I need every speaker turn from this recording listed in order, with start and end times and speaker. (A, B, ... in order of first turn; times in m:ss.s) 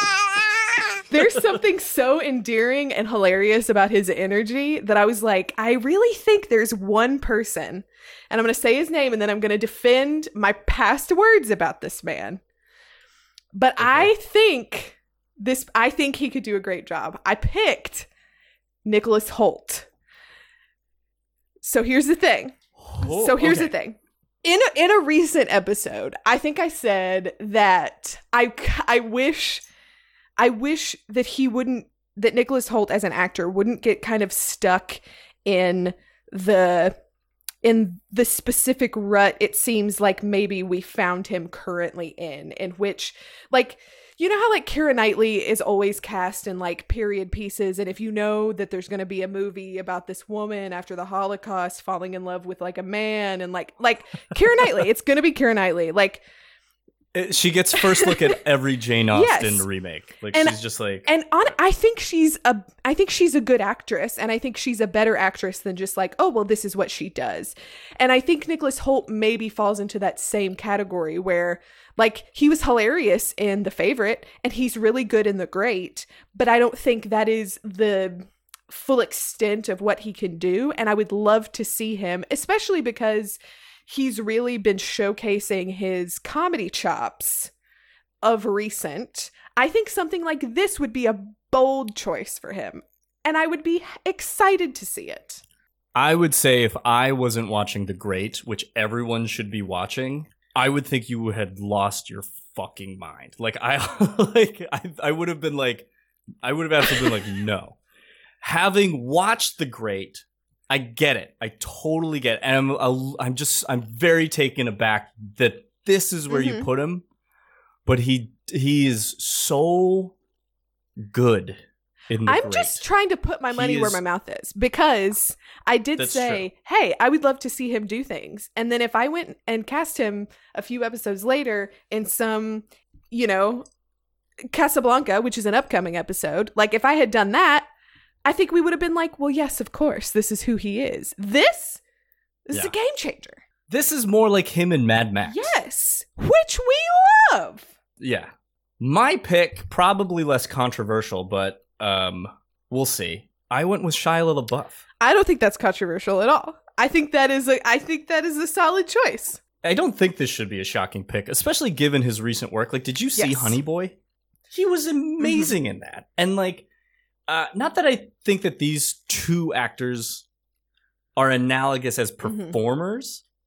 0:01.1-0:12.4 A
0:13.5-0:18.1 A
0:13.8-0:14.1 B
0:18.8-0:19.9 A
0:21.6-0:29.6 A
0:22.8-0:23.7 B
0:30.4-0:37.0 A
0:37.6-0:56.2 A
0:57.1-1:01.1 B
0:59.1-0:59.6 A
1:00.3-1:27.5 A
1:28.2-1:35.4 A
1:35.9-1:45.9 B
1:46.4-1:47.8 B
1:48.4-1:57.0 B
1:56.3-1:56.7 A
1:57.8-2:00.1 B
2:01.0-2:02.8 B
2:02.2-2:13.6 A
2:03.5-2:04.0 B
2:06.0-2:06.5 B
2:14.5-2:17.7 A
2:18.2-2:21.8 A
2:22.5-2:23.4 A
2:23.7-2:25.6 B
2:25.2-2:27.7 A
2:28.0-2:34.8 B
2:35.0-2:39.4 A
2:39.6-2:43.9 B
2:43.2-2:43.6 A
2:44.5-2:46.6 B
2:45.2-2:45.5 A
2:47.3-2:50.2 B
2:51.2-2:53.2 B
2:52.2-2:52.6 A